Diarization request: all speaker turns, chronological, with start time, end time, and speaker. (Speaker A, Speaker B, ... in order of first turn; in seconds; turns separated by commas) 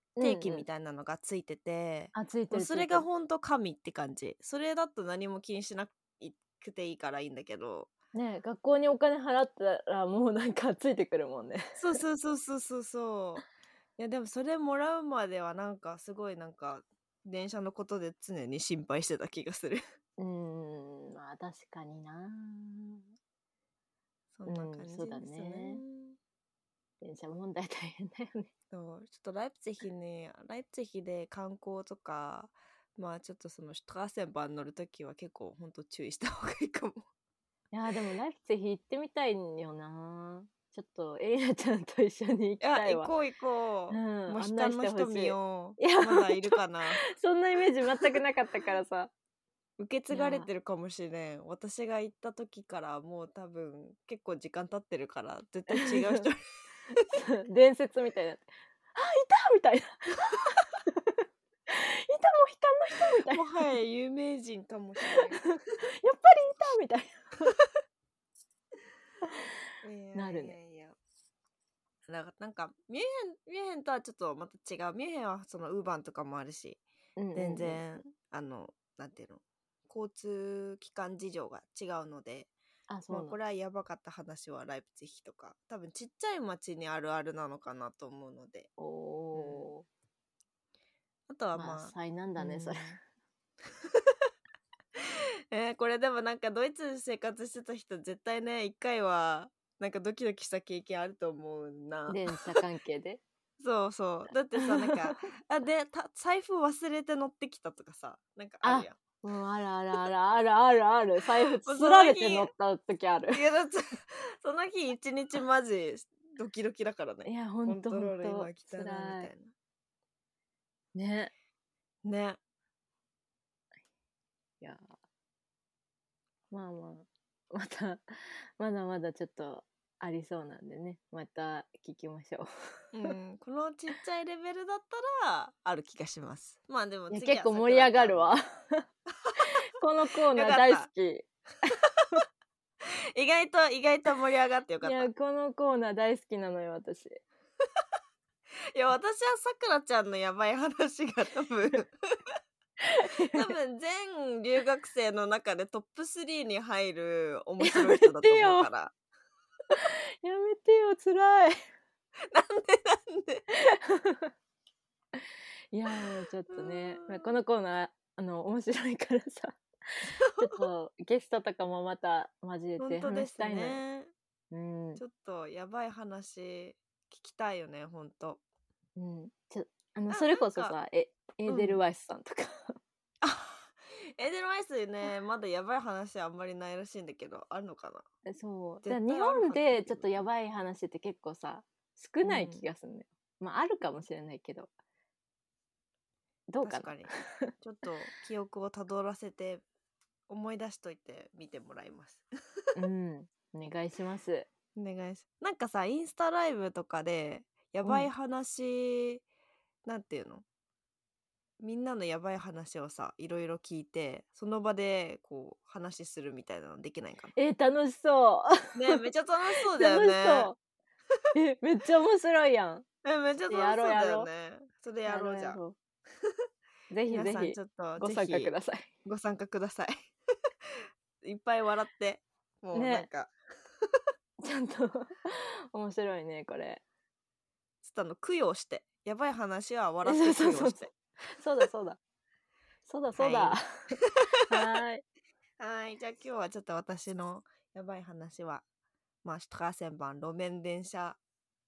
Speaker A: 0.2-0.7, Speaker B: 0.2-7.9, Speaker A: 2.1-3.1, Speaker A: 8.1-12.0, Speaker B: 11.8-13.4, Speaker B: 14.0-19.8, Speaker A: 20.2-23.1, Speaker B: 24.3-26.2, Speaker A: 24.5-25.8, Speaker A: 27.0-28.5, Speaker B: 28.7-37.0, Speaker A: 37.7-43.1, Speaker B: 42.6-47.0, Speaker A: 43.9-49.1, Speaker B: 47.8-48.2, Speaker B: 49.8-57.1, Speaker A: 50.1-50.5, Speaker A: 55.7-56.2, Speaker A: 57.1-63.4, Speaker B: 63.3-65.4, Speaker A: 65.1-67.5, Speaker B: 69.8-71.0, Speaker A: 70.1-70.6, Speaker B: 72.0-76.8, Speaker A: 77.2-77.8, Speaker B: 77.3-82.5, Speaker A: 82.9-83.4, Speaker B: 83.1-88.7, Speaker A: 88.8-89.8, Speaker B: 89.3-89.7, Speaker B: 91.3-92.9, Speaker A: 91.5-93.0, Speaker B: 95.0-102.5, Speaker A: 102.1-103.2, Speaker B: 103.6-109.0, Speaker A: 104.6-105.1, Speaker A: 108.6-113.4, Speaker B: 111.6-112.5, Speaker B: 113.3-119.5, Speaker A: 117.2-119.3, Speaker A: 120.9-121.3, Speaker B: 122.0-122.4, Speaker A: 124.6-124.9, Speaker A: 126.5-132.5, Speaker B: 132.9-138.4, Speaker A: 137.1-138.8, Speaker A: 139.4-142.2, Speaker B: 140.3-140.9, Speaker B: 143.1-145.1, Speaker A: 144.8-147.2, Speaker B: 148.7-152.3, Speaker A: 152.8-153.5, Speaker B: 153.3-158.9, Speaker A: 157.6-158.7, Speaker A: 159.7-161.6, Speaker B: 162.3-163.4, Speaker A: 163.5-164.3, Speaker A: 165.7-173.8, Speaker B: 165.9-167.3, Speaker B: 170.0-170.7, Speaker B: 172.8-174.1, Speaker A: 174.5-175.0, Speaker B: 175.0-178.4, Speaker A: 179.0-182.8, Speaker B: 180.1-180.8, Speaker B: 181.4-181.8, Speaker B: 183.2-188.1, Speaker A: 188.2-194.7, Speaker B: 188.8-190.2, Speaker B: 192.2-192.6, Speaker A: 196.5-197.5, Speaker B: 196.6-199.6, Speaker B: 200.3-202.7, Speaker A: 202.7-204.5, Speaker B: 204.7-209.2, Speaker A: 207.8-208.1, Speaker B: 209.8-210.4, Speaker B: 211.6-217.3, Speaker A: 217.3-219.0, Speaker B: 218.7-220.5, Speaker A: 219.7-220.6, Speaker A: 221.3-222.8, Speaker B: 223.0-225.6, Speaker A: 223.5-224.3, Speaker A: 225.1-225.8, Speaker A: 226.9-228.9, Speaker B: 227.1-229.9, Speaker B: 231.2-233.3, Speaker A: 232.7-233.1, Speaker A: 234.4-236.8, Speaker B: 237.8-240.9, Speaker A: 240.0-242.0, Speaker A: 242.8-245.0, Speaker B: 243.2-244.8, Speaker B: 245.6-248.6, Speaker B: 249.2-251.2